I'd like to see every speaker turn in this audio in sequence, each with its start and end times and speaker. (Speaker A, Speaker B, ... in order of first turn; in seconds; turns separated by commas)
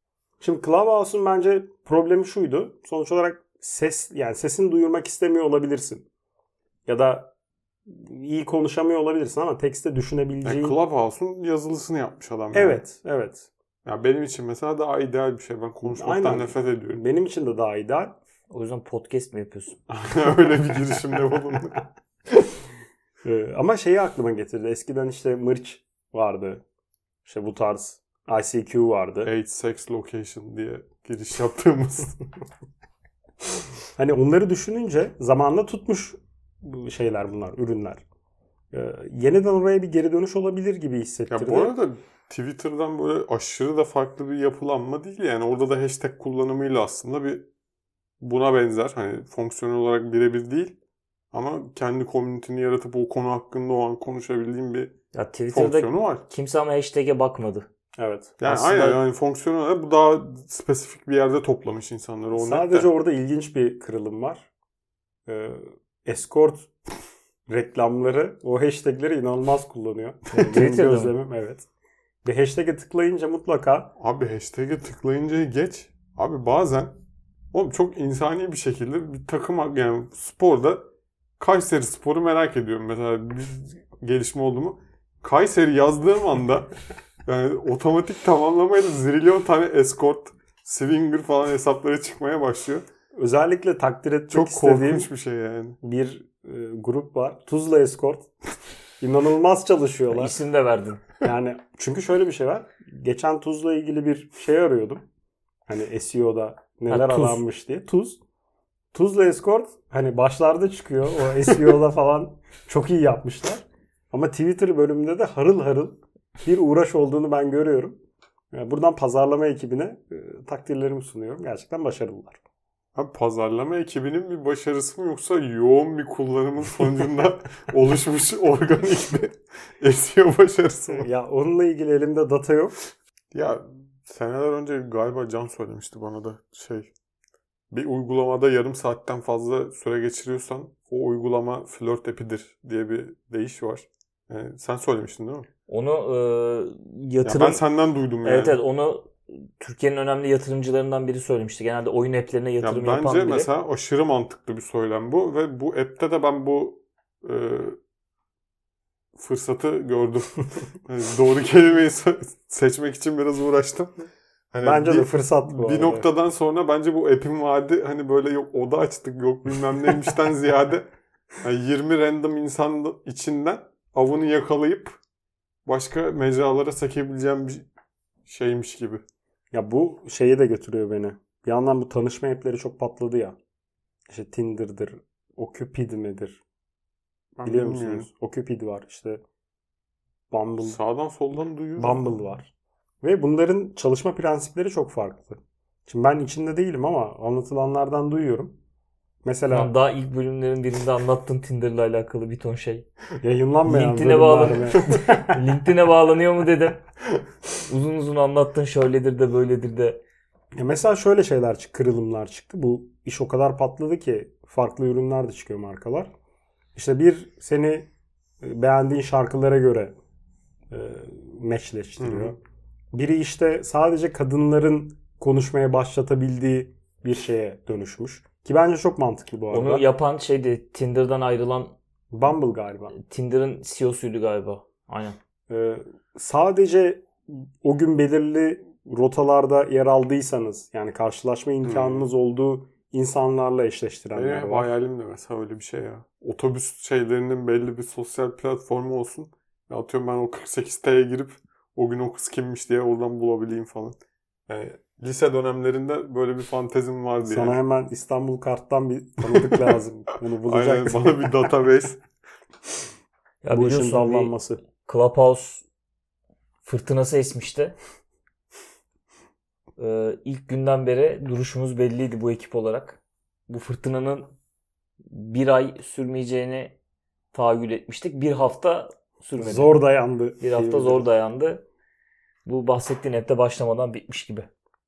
Speaker A: 0.4-6.1, Speaker A: 6.9-7.3, Speaker A: 7.9-10.8, Speaker B: 10.4-12.8, Speaker A: 12.5-13.5, Speaker B: 13.8-17.0, Speaker A: 15.8-18.2, Speaker C: 18.5-19.8, Speaker B: 19.9-21.8, Speaker A: 23.2-26.6, Speaker A: 27.3-29.3, Speaker B: 29.2-32.2, Speaker A: 34.0-38.0, Speaker A: 38.7-41.8, Speaker B: 41.3-47.5, Speaker B: 48.2-50.8, Speaker B: 51.3-54.9, Speaker C: 55.1-57.7, Speaker B: 55.5-56.2, Speaker A: 58.0-58.4, Speaker B: 58.4-62.9, Speaker C: 58.5-59.0, Speaker A: 62.4-64.5, Speaker A: 65.3-66.7, Speaker A: 67.5-71.7, Speaker C: 70.3-71.1, Speaker A: 72.2-73.9, Speaker B: 74.0-77.0, Speaker B: 77.5-80.9, Speaker B: 81.4-86.7, Speaker B: 87.3-92.8, Speaker A: 93.2-95.1, Speaker B: 94.3-95.8, Speaker A: 95.8-98.3, Speaker A: 99.0-100.3, Speaker C: 100.1-101.0, Speaker A: 101.2-105.0, Speaker A: 105.7-108.2, Speaker C: 106.9-107.4, Speaker A: 108.9-118.0, Speaker A: 118.5-122.4, Speaker B: 123.0-131.1, Speaker A: 130.9-132.8, Speaker B: 133.3-136.9, Speaker B: 137.7-145.5, Speaker C: 145.7-147.6, Speaker B: 147.2-148.6, Speaker C: 148.2-153.5, Speaker B: 152.6-157.8, Speaker B: 159.2-170.9, Speaker A: 164.6-166.1, Speaker B: 171.4-175.0, Speaker B: 175.7-177.7, Speaker B: 178.3-179.0, Speaker A: 179.5-183.4, Speaker A: 184.1-186.4, Speaker B: 187.4-188.1, Speaker A: 187.4-189.2, Speaker A: 190.3-190.8, Speaker B: 190.6-192.0, Speaker A: 191.8-192.5, Speaker A: 193.0-198.6, Speaker A: 199.2-199.7, Speaker C: 199.5-202.9, Speaker A: 203.2-205.4, Speaker C: 203.7-206.8, Speaker C: 207.7-210.0, Speaker A: 210.6-216.1, Speaker A: 216.8-217.9, Speaker A: 218.4-220.0, Speaker A: 220.7-222.4, Speaker B: 222.0-222.4, Speaker A: 222.9-229.8, Speaker C: 229.5-231.8, Speaker A: 232.1-233.0, Speaker C: 232.9-235.2, Speaker A: 235.5-244.7, Speaker B: 241.6-242.1, Speaker B: 244.1-257.6, Speaker A: 257.2-261.3, Speaker B: 259.3-259.6, Speaker B: 260.4-262.0, Speaker C: 263.4-265.6, Speaker A: 263.5-264.6, Speaker C: 266.6-267.8, Speaker C: 269.8-274.3, Speaker C: 275.1-276.8, Speaker C: 277.3-279.8, Speaker A: 279.4-281.1, Speaker C: 280.4-281.6, Speaker C: 282.5-284.5